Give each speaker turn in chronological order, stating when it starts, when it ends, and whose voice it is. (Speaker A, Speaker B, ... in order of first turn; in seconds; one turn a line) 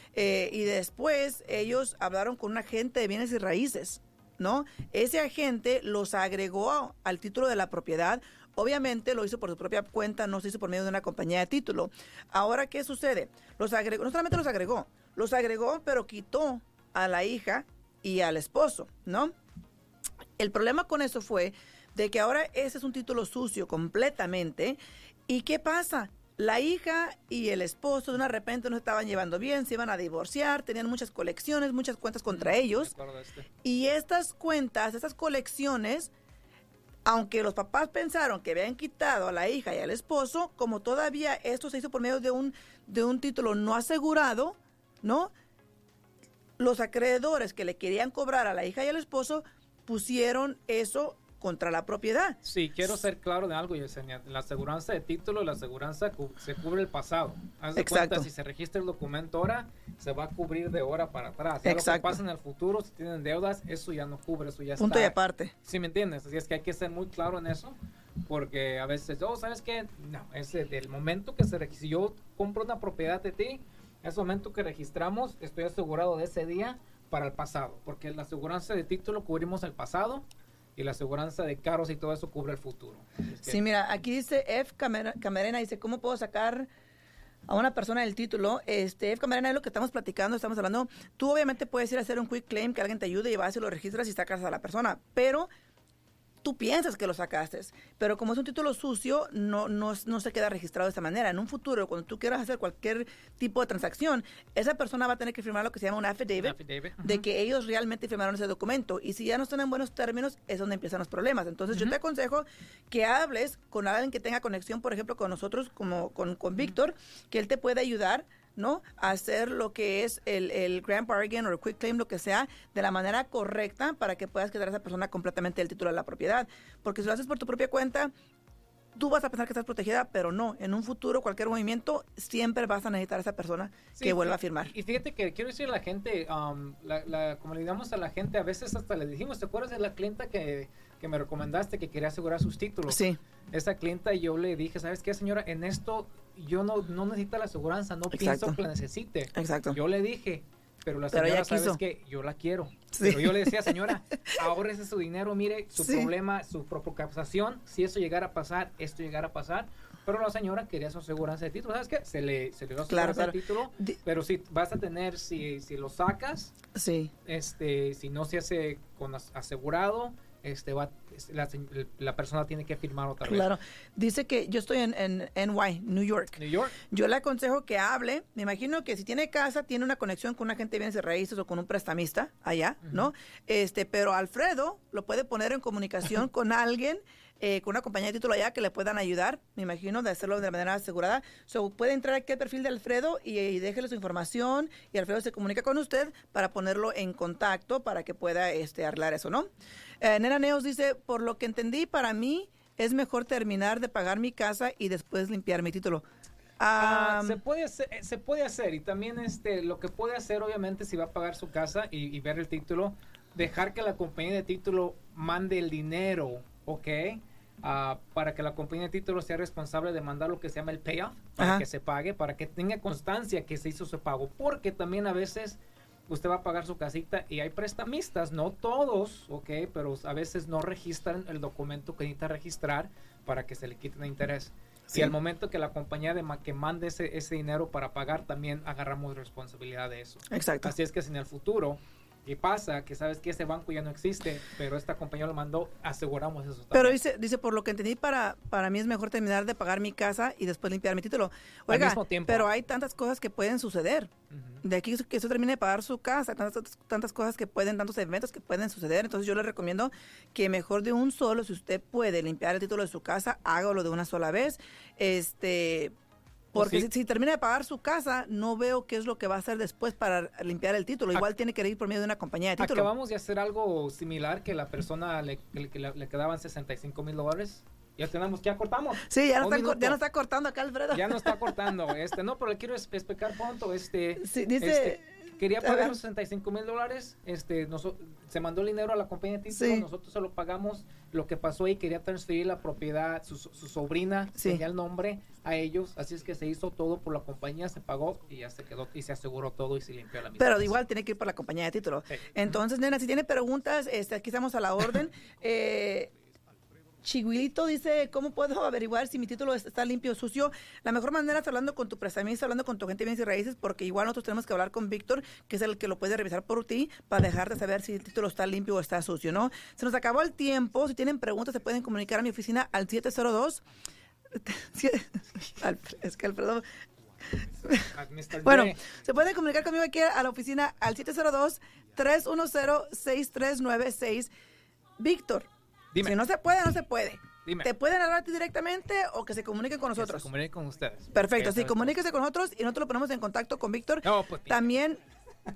Speaker A: 0.1-19.3
Speaker A: 20.4-32.9
Speaker B: 32.3-33.5
Speaker A: 33.6-36.1
Speaker A: 37.0-45.3
Speaker A: 46.6-52.4
Speaker B: 52.4-83.6
Speaker A: 57.8-58.3
Speaker A: 61.6-62.2
Speaker A: 64.8-65.5
Speaker A: 83.4-86.7
Speaker A: 87.5-95.5
Speaker A: 96.4-128.1
Speaker B: 106.4-107.2
Speaker A: 128.9-134.7
Speaker B: 134.0-166.6
Speaker A: 142.9-143.2
Speaker A: 148.1-148.6
Speaker A: 149.3-149.8
Speaker A: 151.1-151.8
Speaker A: 152.9-153.9
Speaker A: 155.8-156.1
Speaker A: 162.9-164.0
Speaker A: 166.8-167.1
Speaker B: 167.2-173.6
Speaker A: 173.2-199.5
Speaker B: 176.4-176.8
Speaker B: 182.8-183.1
Speaker A: 200.0-206.0
Speaker A: 206.6-207.4
Speaker B: 206.8-247.0
Speaker A: 221.4-221.6
Speaker A: 240.3-240.7
Speaker A: 246.7-254.1
Speaker B: 251.7-252.5
Speaker B: 254.3-254.6
Speaker A: 254.6-265.9
Speaker A: 266.5-272.9
Speaker B: 266.6-266.9
Speaker B: 272.6-280.0
Speaker A: 279.0-281.6
Speaker B: 280.9-300.8
Speaker A: 284.2-285.0
Speaker A: 285.6-286.0
Speaker A: 289.5-289.9
Speaker A: 294.4-294.6
Speaker A: 300.4-306.1
Speaker B: 302.1-302.6
Speaker A: 307.0-323.6
Speaker A: 324.3-326.6
Speaker A: 327.3-327.9
Speaker B: 327.8-328.9
Speaker A: 328.4-334.3
Speaker A: 335.0-335.5
Speaker A: 336.0-340.3
Speaker B: 337.4-337.7
Speaker B: 340.0-342.0
Speaker A: 341.1-345.0
Speaker B: 344.0-344.6